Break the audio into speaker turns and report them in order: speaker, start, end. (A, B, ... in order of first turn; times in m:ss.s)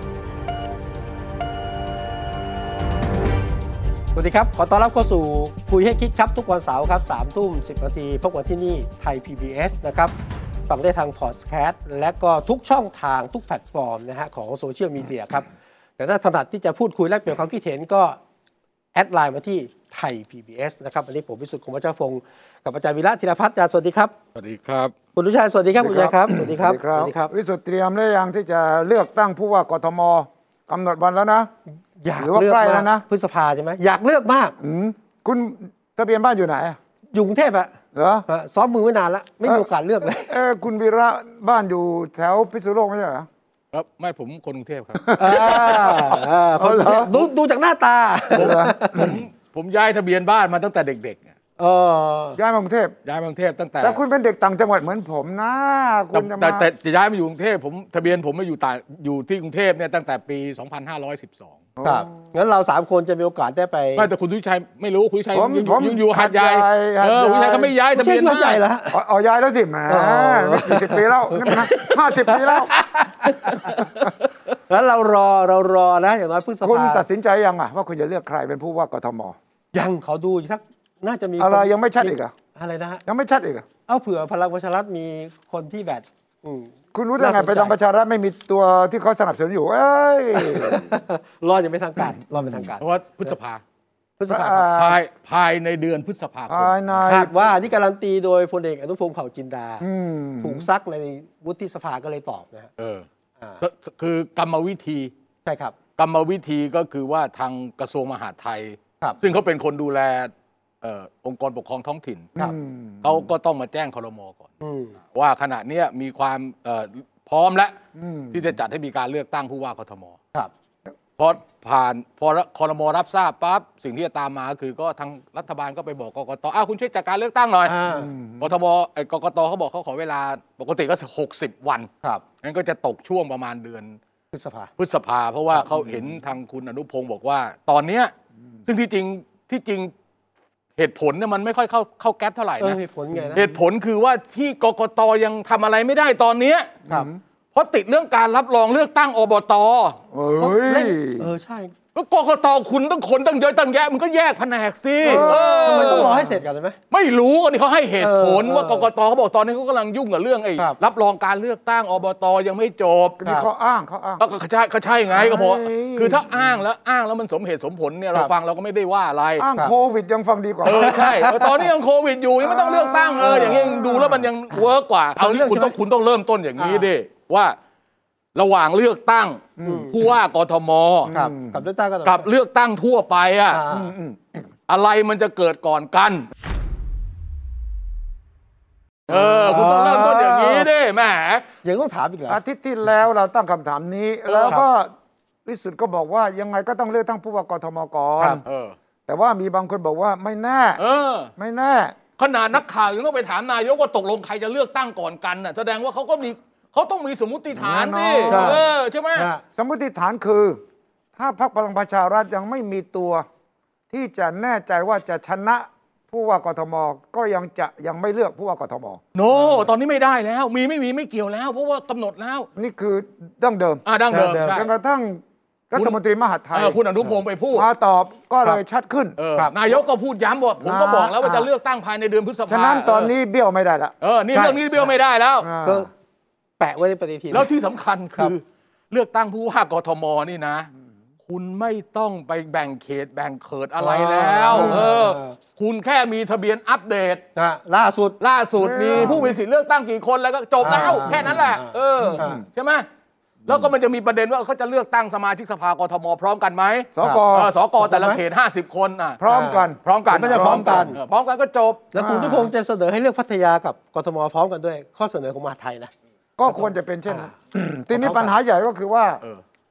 0:04.1-0:10.1 A
0:10.7-0:18.2 A
0:18.9-0:24.1 A
0:24.3-0:24.9 B
0:25.1-0:27.3 A
0:25.8-0:31.5 C
0:32.0-0:34.5 A
0:32.1-0:33.0 C
0:34.6-0:36.8 C
0:37.1-0:40.4 A
0:37.9-0:38.3 C
0:39.4-0:43.3 C
0:43.7-0:46.1 B
0:45.0-0:46.0 C
0:45.2-0:49.2 A
0:46.6-0:47.3 C
0:48.3-0:51.3 B
0:48.3-0:49.2 C
0:51.6-0:52.4 A
0:52.3-0:52.9 C
0:53.0-0:54.0 B
0:53.8-0:56.7 C
0:56.1-1:01.6 B
1:01.8-1:02.1 C
1:01.8-1:04.1 A
1:03.9-1:08.6 B
1:05.3-1:07.7 C
1:07.9-1:09.0 A
1:08.9-1:12.7 C
1:09.9-1:14.1 A
1:13.7-1:14.0 C
1:14.7-1:17.0 A
1:16.6-1:19.4 C
1:19.7-1:23.0 A
1:21.4-1:22.3 C
1:23.0-1:23.7 C
1:23.9-1:27.8 A
1:26.9-1:31.0 C
1:30.4-1:33.4 A
1:32.8-1:33.6 B
1:34.2-1:34.7 A
1:34.3-1:35.0 C
1:34.7-1:36.8 B
1:36.5-1:37.3 C
1:37.0-1:39.8 A
1:39.8-1:40.7 C
1:40.4-1:42.7 A
1:42.8-1:43.0 B
1:43.6-1:45.1 B
1:45.4-1:45.8 A
1:46.0-1:50.3 B
1:50.8-1:52.3 B
1:52.4-1:53.3 C
1:53.0-1:54.5 B
1:54.6-1:54.9 A
1:55.1-1:57.8 B
1:58.0-1:58.5 C
1:58.3-2:00.2 B
2:01.2-2:07.8 B
2:07.6-2:08.1 A
2:07.9-2:08.5 C
2:08.4-2:11.9 B
2:12.4-2:14.0 B
2:14.3-2:14.7 A
2:14.8-2:18.1 B
2:18.7-2:19.9 B
2:20.8-2:22.8 B
2:22.6-2:23.6 A
2:23.1-2:23.4 C
2:23.3-2:26.8 B
2:26.9-2:27.2 C
2:27.5-2:30.0 B
2:30.1-2:31.3 C
2:30.4-2:31.7 A
2:31.9-2:36.3 B
2:35.0-2:36.4 C
2:35.0-2:36.8 A
2:36.9-2:43.2 B
2:38.0-2:38.9 A
2:43.2-2:44.2 C
2:44.2-2:49.5 B
2:45.1-2:46.4 C
2:49.4-2:51.1 C
2:50.6-2:51.7 A
2:50.6-2:57.6 B
2:52.4-2:54.3 C
2:53.2-2:53.7 A
2:55.2-2:55.7 A
2:56.6-2:56.9 A
2:58.3-3:01.1 B
2:59.6-2:59.9 C
2:59.6-2:59.9 A
3:01.0-3:01.6 C
3:01.1-3:02.2 A
3:02.0-3:03.6 B
3:03.5-3:03.9 A
3:03.7-3:04.5 C
3:04.7-3:06.3 B
3:09.1-3:11.5 B
3:09.1-3:10.6 A
3:11.6-3:12.4 A
3:12.3-3:14.9 C
3:14.3-3:14.6 B
3:15.4-3:18.4 C
3:18.4-3:18.7 B
3:19.1-3:20.8 C
3:20.8-3:21.3 B
3:21.4-3:22.0 C
3:22.2-3:29.3 B
3:27.6-3:28.6 C
3:28.2-3:28.6 A
3:29.1-3:29.4 A
3:29.6-3:30.6 C
3:31.2-3:33.2 C
3:33.9-3:39.0 C
3:39.1-3:42.5 B
3:42.6-3:43.8 C
3:43.8-3:44.7 B
3:44.1-3:44.6 A
3:44.4-3:46.8 C
3:46.5-3:47.7 B
3:47.5-3:49.2 C
3:49.2-3:53.1 B
3:50.6-3:51.5 C
3:52.5-3:53.9 C
3:54.0-3:55.5 B
3:54.3-3:54.9 A
3:55.4-3:55.9 C
3:55.6-3:55.9 A
3:56.6-3:57.5 A
3:57.3-4:00.7 B
4:01.2-4:07.2 B
4:03.8-4:05.4 A
4:04.5-4:04.9 C
4:07.4-4:08.2 A
4:08.2-4:12.8 B
4:08.6-4:09.4 C
4:08.9-4:09.3 A
4:10.6-4:12.4 A
4:10.7-4:11.3 C
4:12.0-4:12.4 C
4:13.4-4:19.2 B
4:17.0-4:17.5 C
4:17.8-4:18.2 A
4:19.2-4:20.9 C
4:19.3-4:21.0 A
4:19.8-4:21.9 B
4:21.9-4:25.9 A
4:21.9-4:22.5 C
4:26.4-4:29.2 C
4:26.5-4:27.3 A
4:27.9-4:28.3 A